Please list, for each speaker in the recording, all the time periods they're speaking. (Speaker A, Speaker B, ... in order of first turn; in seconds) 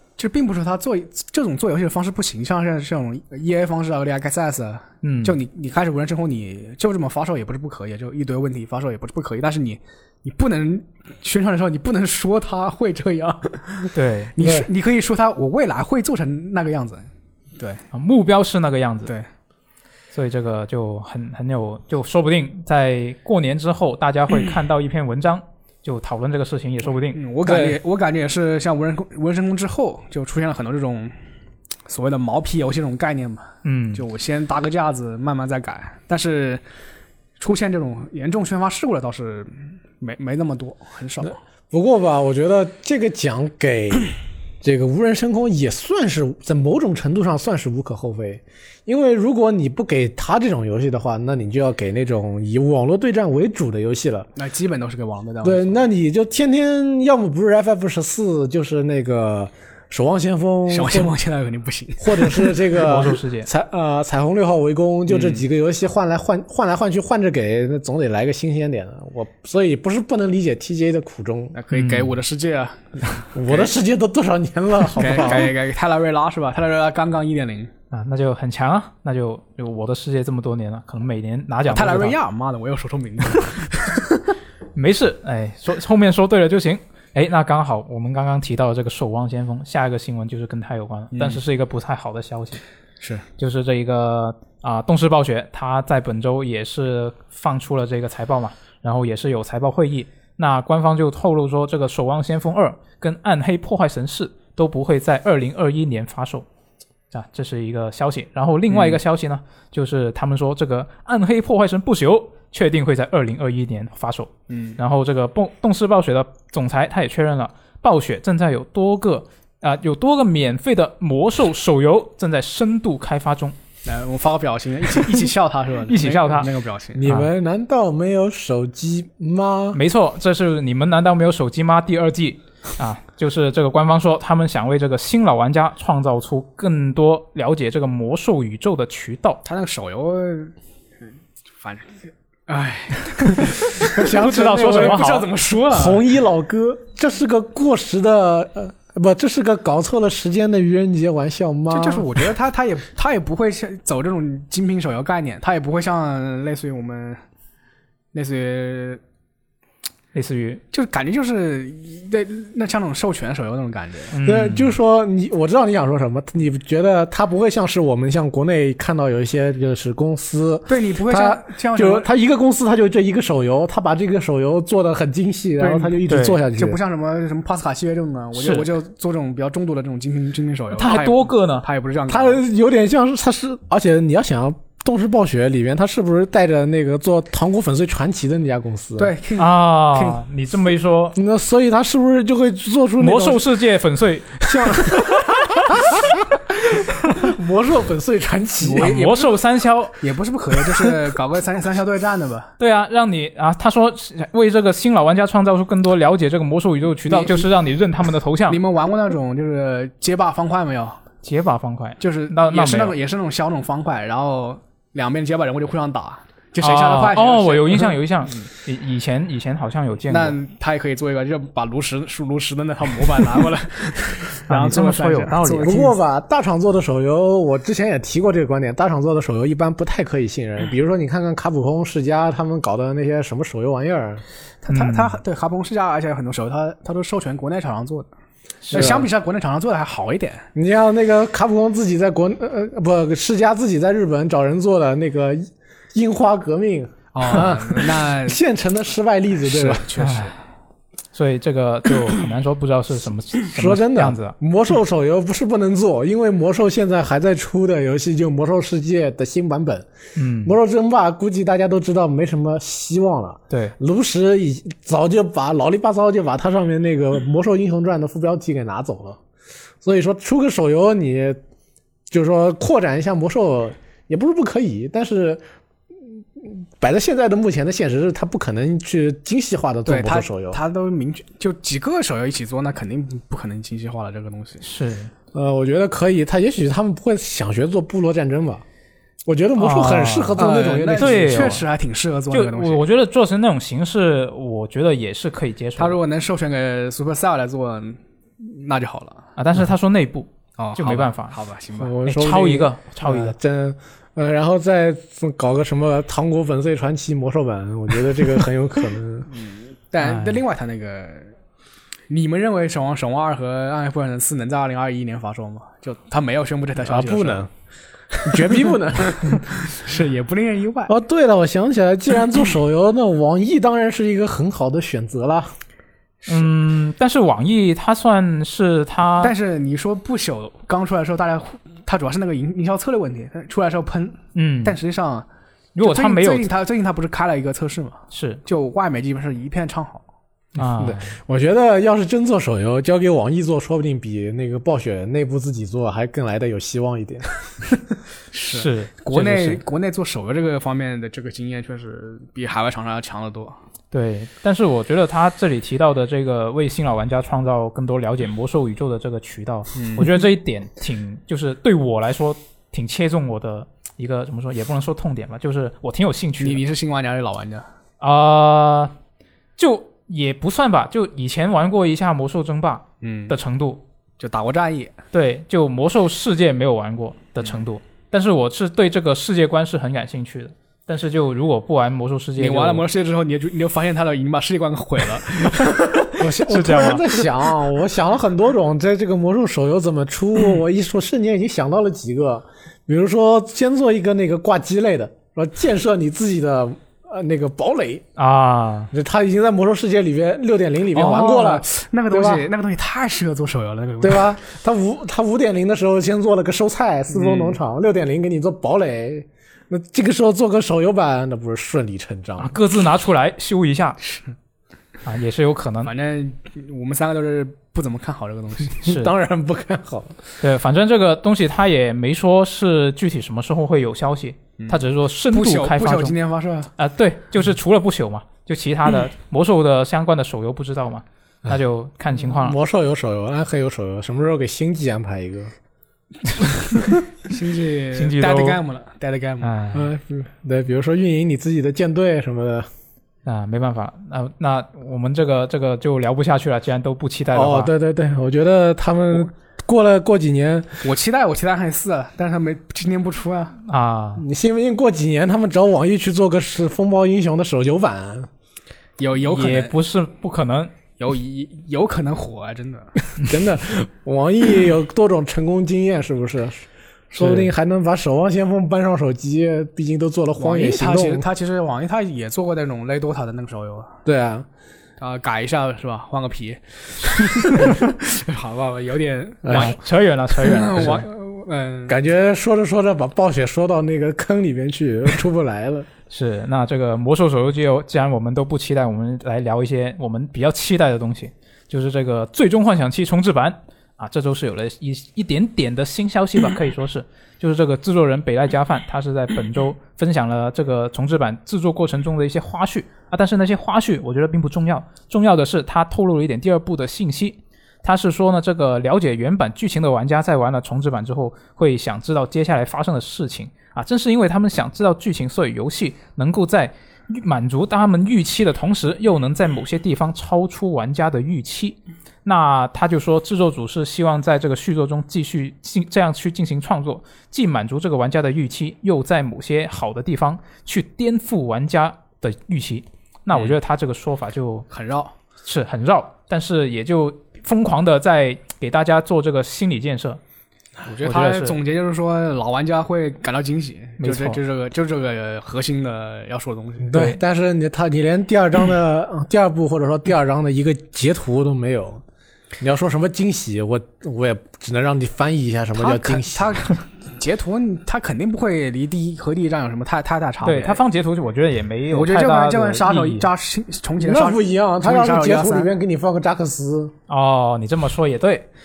Speaker A: 0.2-17.8, 27.1-31.1, 31.9-36.6, 37.4-41.4, 54.4-55.8, 60.7-62.6, 65.1-65.4, 71.5-73.7, 74.9-77.7, 81.7-84.2, 91.1-91.4, 108.7-109.0, 114.5-114.8, 123.8-127.1, 139.4-140.5, 141.6-146.0, 151.7-157.2, 158.1-159.0, 160.7-164.2, 170.7-172.1, 175.6-182.4, 189.0-190.2, 198.6-199.3, 200.0-202.5, 207.1-207.5, 208.5-211.0, 212.0-218.5, 220.1-225.9, 234.6-238.1, 238.7-240.5, 247.1-248.4, 249.4-250.3, 279.9-284.6, 290.4-292.8, 295.8-299.2, 300.6-302.0, 309.3-311.3, 312.1-317.4, 318.3-320.9, 329.2-335.3, 335.8-340.0, 348.3-353.6, 359.7-360.2, 366.4-367.7, 373.0-373.4, 374.2-375.0, 382.4-386.0, 400.9-404.4, 407.1-407.6, 415.8-418.9, 424.6-426.7, 437.2-439.5, 450.8-453.6, 459.0-459.7, 461.0-462.9, 470.4-473.9, 475.0-479.8, 480.3-482.0, 534.7-535.1, 540.9-546.9, 555.8-560.8, 561.9-565.7
Speaker B: 5.0-5.3, 13.9-14.3, 17.9-19.1, 20.1-27.6, 33.6-34.0, 62.8-63.5, 71.7-72.1, 77.9-82.2, 84.7-92.6, 93.4-106.5, 107.1-123.5, 125.9-126.5, 129.7-139.4, 144.0-145.3, 160.1-160.6, 164.1-164.8, 176.1-176.4, 178.3-178.7, 180.7-181.6, 189.4-191.2, 193.0-194.9, 198.7-200.0, 202.6-208.6, 211.2-212.9, 216.6-220.4, 224.5-225.9, 234.7-235.2, 238.6-239.0, 250.0-250.3, 251.1-254.3, 260.1-260.6, 263.5-263.7, 284.6-285.1, 289.6-290.4, 290.9-291.6, 292.3-296.0, 299.4-301.4, 302.0-303.3, 310.0-310.4, 326.2-329.3, 334.3-334.8, 335.8-336.5, 338.1-338.4, 340.6-341.2, 348.5-349.6, 353.9-366.6, 368.0-368.9, 369.6-373.8, 375.1-382.8, 386.1-387.2, 398.2-398.9, 412.4-414.0, 415.0-415.9, 418.8-419.1, 420.4-426.1, 426.8-432.6, 437.9-438.6, 439.4-439.9, 443.2-447.7, 453.6-454.2, 459.2-460.7, 479.5-481.1, 486.1-534.7, 535.4-540.2, 541.0-541.5, 544.0-544.4, 546.9-547.2, 560.4-563.3, 567.1-568.5
Speaker C: 14.4-14.7, 41.7-54.3, 55.4-61.1, 62.0-71.6, 73.3-75.5, 126.9-129.8, 143.9-152.2, 164.2-176.8, 182.1-189.1, 191.1-193.4, 194.5-199.0, 225.6-234.2, 238.7-239.1, 240.5-249.9, 253.5-259.9, 260.4-269.2, 269.8-271.4, 272.1-275.4, 276.4-280.6, 285.3-288.6, 289.2-291.5, 301.8-309.3, 316.8-317.5, 318.1-319.6, 320.9-325.5, 340.8-347.8, 386.2-398.0, 398.9-402.4, 404.0-412.5, 418.8-420.2, 432.3-435.5, 439.7-442.7, 447.3-450.8, 454.2-458.3, 463.2-471.2, 474.0-474.5, 479.4-479.8, 481.9-485.9, 546.9-552.0, 552.6-556.6, 564.0-566.9